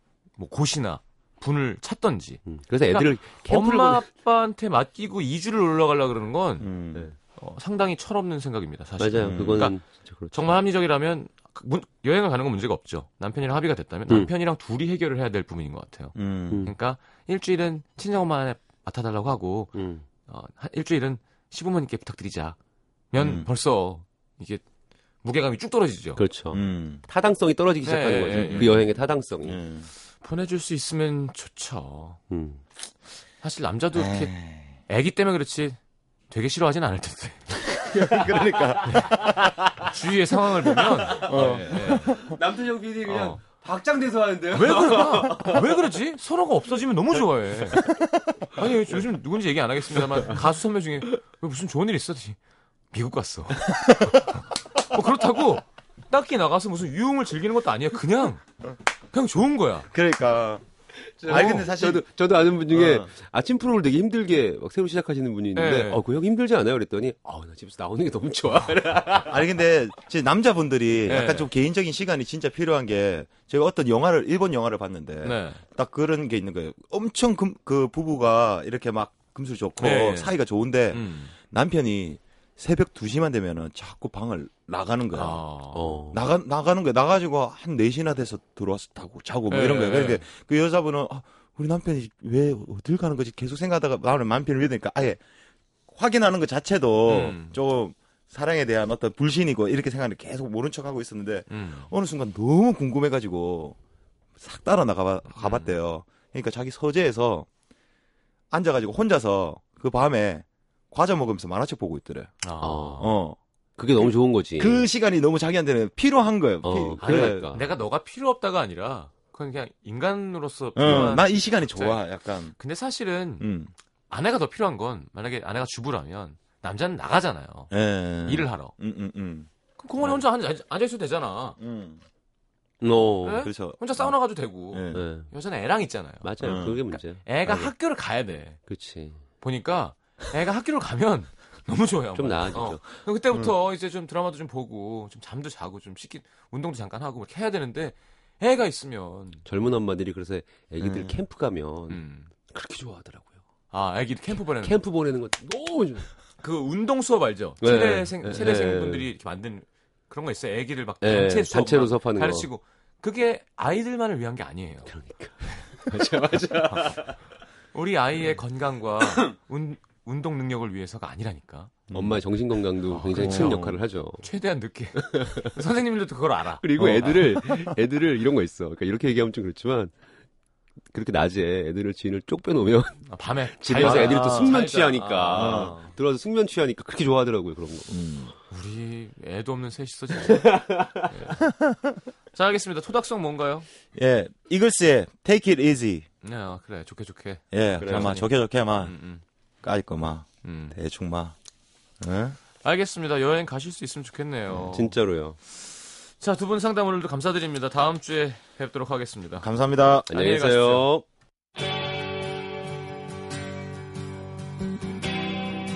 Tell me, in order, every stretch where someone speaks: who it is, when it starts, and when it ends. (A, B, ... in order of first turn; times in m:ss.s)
0:00.4-0:06.7 A
0:02.4-0:04.0 B
0:06.6-0:07.0 C
0:07.3-0:09.8 A
0:09.0-0:10.6 B
0:09.2-0:09.7 C
0:10.3-0:19.7 A
0:16.1-0:16.7 C
0:19.7-0:20.0 B
0:20.3-0:22.6 A
0:23.1-0:24.6 A
0:23.2-0:23.5 C
0:25.2-0:26.2 A
0:26.2-0:29.6 B
0:26.5-0:27.0 C
0:27.8-0:28.8 A
0:28.3-0:28.9 C
0:29.4-0:29.9 C
0:30.2-0:32.2 A
0:32.3-0:32.6 B
0:33.4-0:34.3 A
0:33.9-0:34.8 C
0:34.9-0:35.8 A
0:36.3-0:37.9 A
0:37.9-0:39.9 C
0:38.0-0:39.9 B
0:38.9-0:39.2 A
0:39.8-0:42.2 A
0:41.0-0:45.6 B
0:41.1-0:42.4 C
0:43.0-0:43.4 A
0:44.5-0:47.9 A
0:48.5-0:52.4 A
0:52.9-0:58.4 A
0:53.8-0:54.2 C
0:59.1-0:59.9 A
0:59.9-1:00.6 C
1:01.2-1:09.4 B
1:01.2-1:02.0 C
1:01.3-1:01.6 A
1:02.7-1:03.1 C
1:05.6-1:06.0 A
1:09.2-1:25.4 C
1:11.1-1:11.5 A
1:15.2-1:15.6 A
1:19.8-1:20.3 A
1:20.9-1:21.3 A
1:25.1-1:26.0 A
1:25.7-1:26.2 B
1:26.1-1:35.2 C
1:29.5-1:30.2 A
1:35.9-1:43.8 C
1:37.1-1:37.6 A
1:41.5-1:41.9 A
1:44.4-1:47.5 C
1:45.3-1:45.7 A
1:48.5-1:52.3 C
1:52.4-1:53.1 A
1:52.6-1:53.1 B
1:53.0-1:53.4 C
1:53.8-1:54.8 B
1:54.0-1:57.4 C
1:56.6-1:57.7 B
1:57.0-2:02.0 A
2:00.8-2:02.5 C
2:00.8-2:01.1 B
2:02.6-2:03.5 A
2:03.4-2:03.7 C
2:04.1-2:07.7 A
2:07.7-2:10.2 C
2:08.2-2:08.7 A
2:09.8-2:11.6 A
2:11.6-2:12.0 C
2:12.8-2:13.5 B
2:13.2-2:18.6 A
2:13.4-2:14.1 C
2:14.7-2:15.0 C
2:14.9-2:15.3 B
2:16.2-2:17.7 B
2:16.4-2:16.8 C
2:18.7-2:19.2 B
2:19.4-2:29.4 A
2:22.1-2:23.0 B
2:29.4-2:33.4 B
2:30.8-2:31.2 C
2:31.9-2:32.3 A
2:33.7-2:34.8 A
2:34.6-2:36.1 B
2:36.4-2:44.9 A
2:37.6-2:39.1 B
2:41.0-2:42.5 B
2:44.8-2:47.2 B
2:46.7-2:47.1 A
2:47.7-2:51.7 A
2:51.9-2:52.2 C
2:51.9-2:54.2 B
2:52.9-2:57.4 A
2:53.2-2:53.8 C
2:55.0-2:55.5 B
2:56.6-2:59.9 B
3:00.9-3:08.0 B
3:03.1-3:05.9 A
3:03.8-3:04.5 C
3:05.3-3:05.7 C
3:07.9-3:08.3 C
3:08.5-3:11.5 A
3:10.2-3:11.1 B
3:11.5-3:11.9 C
3:12.3-3:13.6 A
3:13.9-3:16.0 C
3:16.2-3:19.2 A
3:17.5-3:18.9 C
3:17.8-3:18.1 B
3:19.6-3:21.3 C
3:20.4-3:20.8 A
3:22.0-3:22.4 C
3:22.6-3:25.0 A
3:24.6-3:25.4 B
3:25.5-3:29.5 A
3:29.4-3:30.1 C
3:30.1-3:30.9 A
3:30.1-3:31.0 B